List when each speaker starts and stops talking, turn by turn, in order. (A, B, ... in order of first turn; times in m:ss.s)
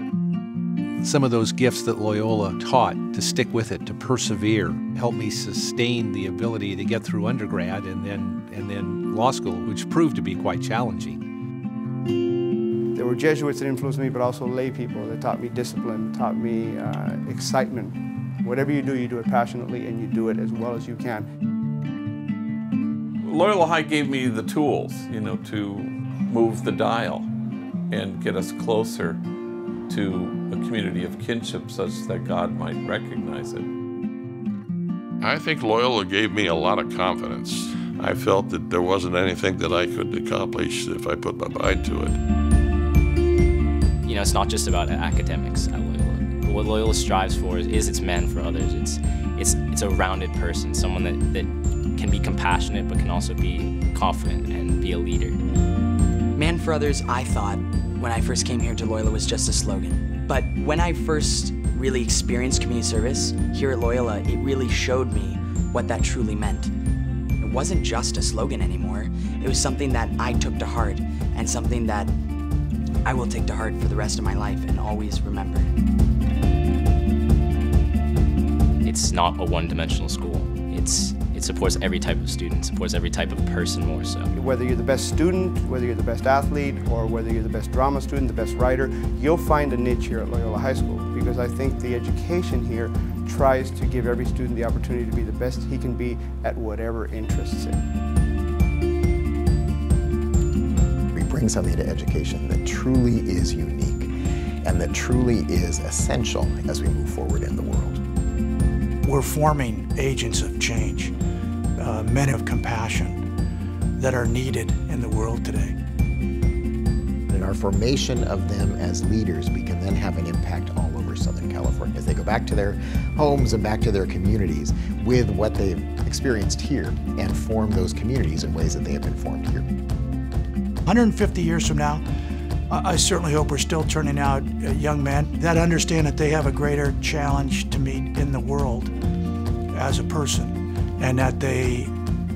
0:01.0-0:11.2 A
0:12.9-0:21.2 B
0:23.2-0:27.3 C
0:27.9-0:29.2 C
0:29.9-0:33.6 C
0:35.2-0:42.2 D
0:44.0-0:55.4 E
0:56.4-1:06.7 F
1:07.4-1:12.1 F
1:13.0-1:15.7 F
1:18.8-1:24.3 E
1:24.3-1:37.8 B
1:41.1-1:48.0 G
1:49.0-1:51.1 H
1:51.8-1:53.2 H
1:54.0-1:55.8 H
1:57.3-2:09.7 G
2:10.8-2:12.0 H
2:12.7-2:18.9 H
2:19.7-2:21.9 H